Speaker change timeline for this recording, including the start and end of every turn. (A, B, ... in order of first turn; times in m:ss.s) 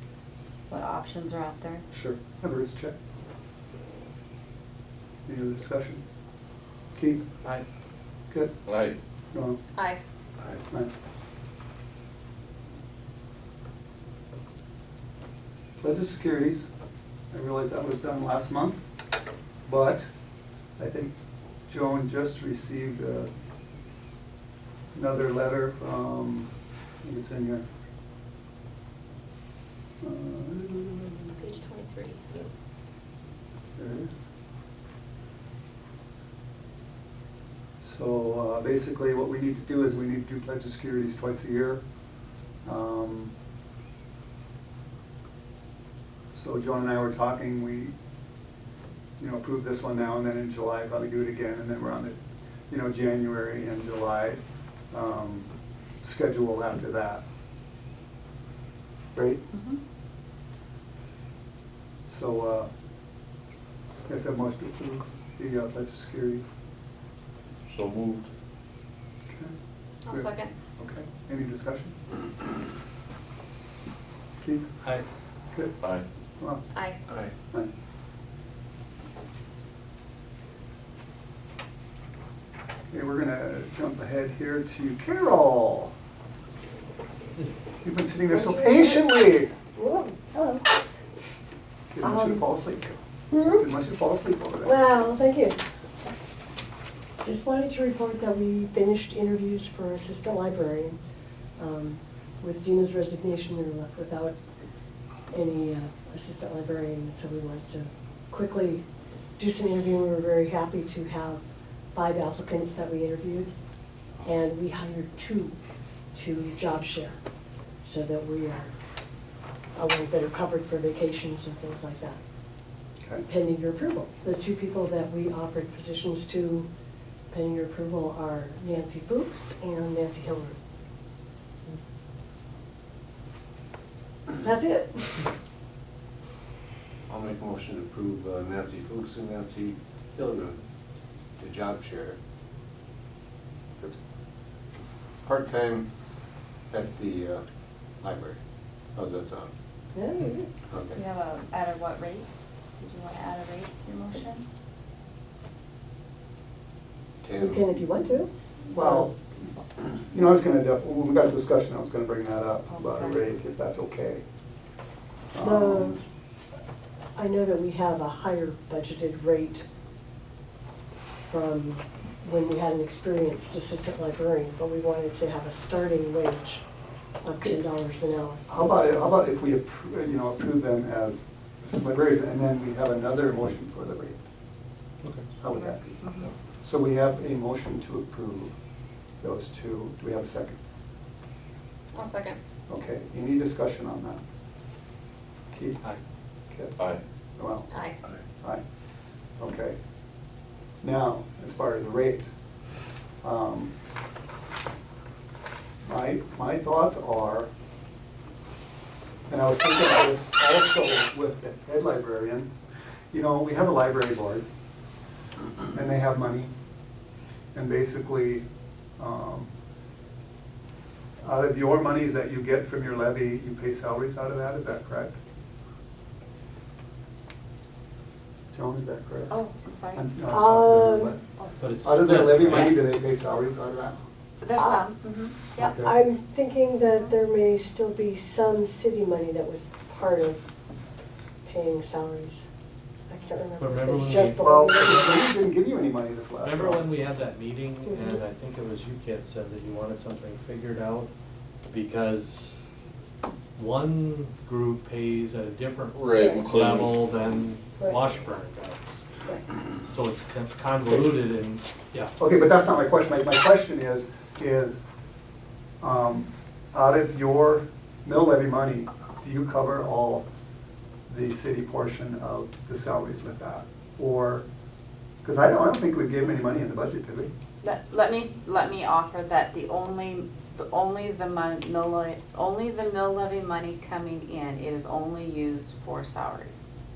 0:00.7-0:01.8 A
0:01.9-0:02.9 B
0:05.2-0:06.0 B
0:06.9-0:07.2 B
0:08.7-0:09.0 C
0:09.3-0:09.6 B
0:10.7-0:10.9 B
0:15.8-0:16.7 B
0:17.3-0:18.8 B
0:19.6-0:20.1 B
0:20.8-0:21.1 B
0:21.7-0:23.3 B
0:24.9-0:26.5 B
0:27.0-0:27.6 B
0:30.0-0:31.4 B
0:31.4-0:32.5 D
0:33.8-0:34.1 B
0:37.8-0:41.8 B
0:42.6-0:43.3 B
0:46.3-0:47.9 B
0:49.2-0:52.2 B
0:52.7-0:54.4 B
0:54.9-0:55.5 B
0:56.0-0:57.2 B
0:59.1-0:59.4 B
1:02.1-1:02.7 B
1:04.1-1:06.5 B
1:07.7-1:08.3 C
1:10.0-1:10.5 D
1:10.1-1:11.9 B
1:14.4-1:14.7 B
1:15.5-1:15.8 B
1:16.4-1:16.6 B
1:17.1-1:17.3 E
1:22.9-1:25.9 B
1:27.8-1:29.5 B
1:28.3-1:29.1 F
1:29.7-1:30.7 F
1:31.9-1:34.8 B
1:32.0-1:32.4 F
1:33.3-1:33.6 F
1:34.6-1:35.6 F
1:37.2-1:41.0 F
1:41.6-1:44.3 F
1:45.3-1:48.8 F
1:49.4-1:51.4 F
1:51.9-1:53.5 F
1:54.2-1:55.5 F
1:56.1-1:57.2 F
1:57.8-1:58.7 F
1:59.7-2:02.2 F
2:03.2-2:06.7 F
2:07.3-2:10.6 F
2:14.4-2:15.3 F
2:17.1-2:20.6 E
2:21.4-2:22.2 E
2:25.2-2:25.9 E
2:26.7-2:27.4 E
2:28.0-2:28.4 E
2:28.9-2:29.5 E
2:29.9-2:30.5 F
2:30.7-2:31.0 E
2:30.9-2:34.4 A
2:37.2-2:37.8 E
2:37.4-2:39.1 F
2:38.7-2:39.1 B
2:39.8-2:44.2 B
2:42.7-2:43.3 A
2:45.3-2:46.0 B
2:45.4-2:46.0 F
2:47.2-2:49.6 F
2:51.2-2:56.6 F
2:57.2-2:58.6 F
2:58.5-3:04.2 B
3:05.4-3:05.8 B
3:05.5-3:06.3 A
3:06.6-3:08.5 B
3:09.2-3:10.6 B
3:11.9-3:12.4 D
3:12.7-3:14.2 B
3:15.5-3:15.9 B
3:16.5-3:16.8 B
3:17.4-3:17.7 B
3:17.7-3:18.0 D
3:19.4-3:19.8 B
3:20.8-3:22.3 B
3:23.2-3:23.7 B
3:25.8-3:27.5 B
3:29.3-3:32.5 B
3:33.1-3:34.4 B
3:35.7-3:36.5 B
3:37.5-3:38.4 B
3:39.0-3:39.5 B
3:41.2-3:45.1 B
3:48.5-3:49.3 B
3:49.3-3:50.0 A
3:49.9-3:54.0 B
3:50.3-3:51.2 F
3:51.6-3:52.9 G
3:52.4-3:52.9 A
3:54.4-3:55.7 A
3:54.6-3:54.9 F
3:55.6-4:00.4 F
3:55.6-3:55.9 B
4:01.4-4:02.4 F
4:03.1-4:05.3 F
4:03.6-4:04.4 G
4:04.4-4:06.8 B
4:06.4-4:11.1 G
4:07.8-4:08.2 F
4:11.7-4:12.6 G
4:13.6-4:18.8 G
4:15.9-4:17.0 C
4:16.1-4:16.5 F
4:17.8-4:18.1 F
4:19.7-4:22.1 G
4:22.2-4:24.8 B
4:25.8-4:30.2 B
4:31.1-4:34.4 B
4:35.2-4:37.3 B
4:37.6-4:46.7 A